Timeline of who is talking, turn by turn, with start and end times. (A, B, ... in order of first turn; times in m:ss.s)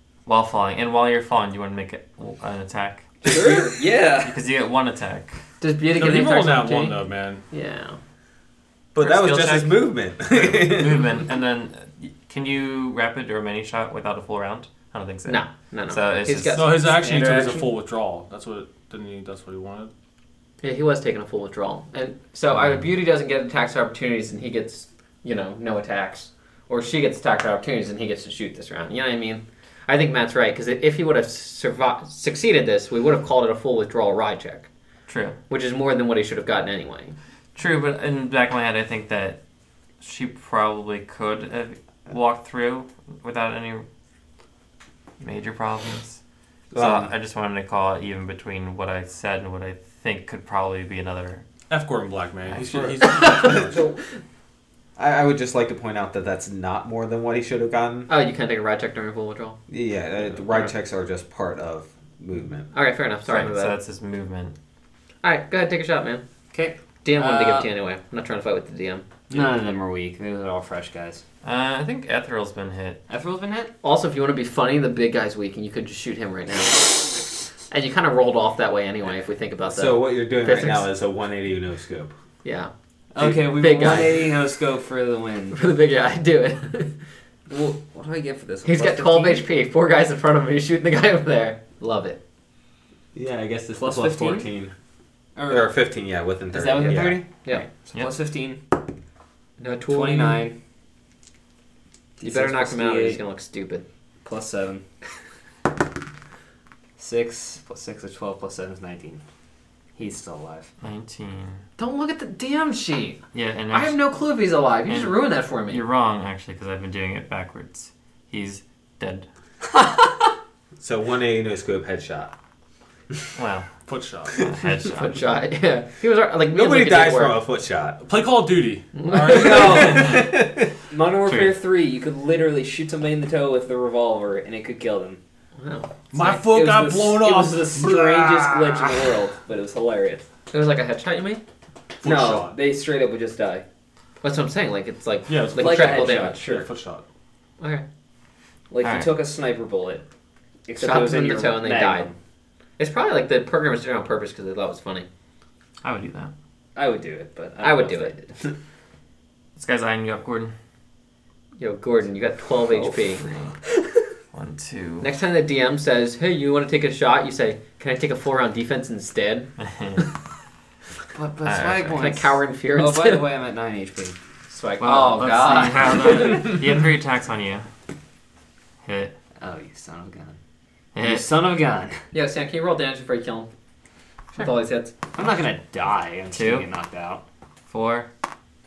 0:00.3-0:03.7 A
0:03.2-0:04.4 B
0:04.2-0:05.4 A
0:05.6-0:08.0 C
0:05.9-0:07.4 D
0:09.0-0:11.0 E
0:09.0-0:16.6 A
0:15.3-0:16.9 C
0:16.5-0:19.9 D
0:16.8-0:17.7 B
0:20.6-0:34.7 C
0:35.1-0:35.4 A
0:35.5-0:37.2 C
0:37.6-0:39.4 A
0:40.0-0:43.9 A
0:45.2-0:46.2 A
0:46.7-0:47.1 E
0:46.8-0:51.4 A
0:51.7-0:53.7 D
0:53.0-0:54.0 C
0:53.4-0:53.7 E
0:55.0-0:58.1 E
0:58.1-0:59.6 C
0:59.7-1:02.7 E
1:02.7-1:03.8 C
1:03.3-1:04.6 A
1:05.2-1:06.2 C
1:06.5-1:07.7 B
1:07.0-1:09.5 C
1:09.3-1:11.2 B
1:11.4-1:13.0 A
1:13.1-1:13.7 B
1:13.8-1:20.9 C
1:19.7-1:22.1 E
1:22.4-1:24.3 C
1:23.1-1:25.6 B
1:25.5-1:27.0 C
1:27.5-1:29.4 B
1:28.6-1:32.2 C
1:33.1-1:34.7 E
1:33.8-1:34.5 B
1:35.4-1:35.7 B
1:35.5-1:37.2 E
1:36.5-1:38.6 B
1:36.8-1:37.7 C
1:39.6-1:40.5 C
1:39.9-1:40.6 B
1:42.2-1:43.2 B
1:42.2-1:43.8 C
1:44.2-1:44.8 B
1:47.0-1:49.2 B
1:50.0-1:50.7 B
1:50.8-1:51.6 A
1:51.8-1:55.8 C
1:53.3-1:54.0 A
1:54.9-1:59.3 A
2:00.8-2:02.3 E
2:03.4-2:03.7 A
2:03.9-2:04.5 D
2:04.4-2:05.2 A
2:04.8-2:07.4 C
2:06.5-2:08.0 E
2:08.0-2:10.2 D
2:09.0-2:09.8 C
2:09.2-2:10.7 E
2:09.6-2:10.0 B
2:10.9-2:15.2 B
2:11.2-2:11.6 A
2:15.6-2:16.4 C
2:16.1-2:19.1 D
2:16.5-2:20.2 B
2:20.5-2:21.4 C
2:22.0-2:22.6 D
2:22.0-2:23.7 B
2:24.2-2:26.6 C
2:25.3-2:27.0 D
2:25.6-2:26.7 B
2:28.7-2:30.0 B
2:28.8-2:29.2 A
2:30.7-2:32.2 B
2:30.8-2:32.1 C
2:32.8-2:35.1 C
2:35.8-2:36.3 A
2:36.8-2:38.4 B
2:37.6-2:38.2 C
2:39.6-2:40.5 A
2:41.6-2:43.3 C
2:42.7-2:43.0 B
2:43.3-2:43.5 A
2:44.3-2:45.1 A
2:45.0-2:49.5 C
2:49.6-2:50.0 A
2:51.1-2:54.2 B
2:51.4-2:52.1 A
2:51.9-2:53.3 C
2:54.5-2:56.4 C
2:54.8-2:57.7 A
2:55.8-2:56.4 B
2:58.8-2:59.2 A
2:59.4-3:00.4 B
3:01.0-3:01.3 A
3:01.0-3:02.0 B
3:02.1-3:03.5 C
3:04.4-3:04.9 C
3:05.1-3:07.2 B
3:06.3-3:06.7 A
3:07.7-3:08.1 A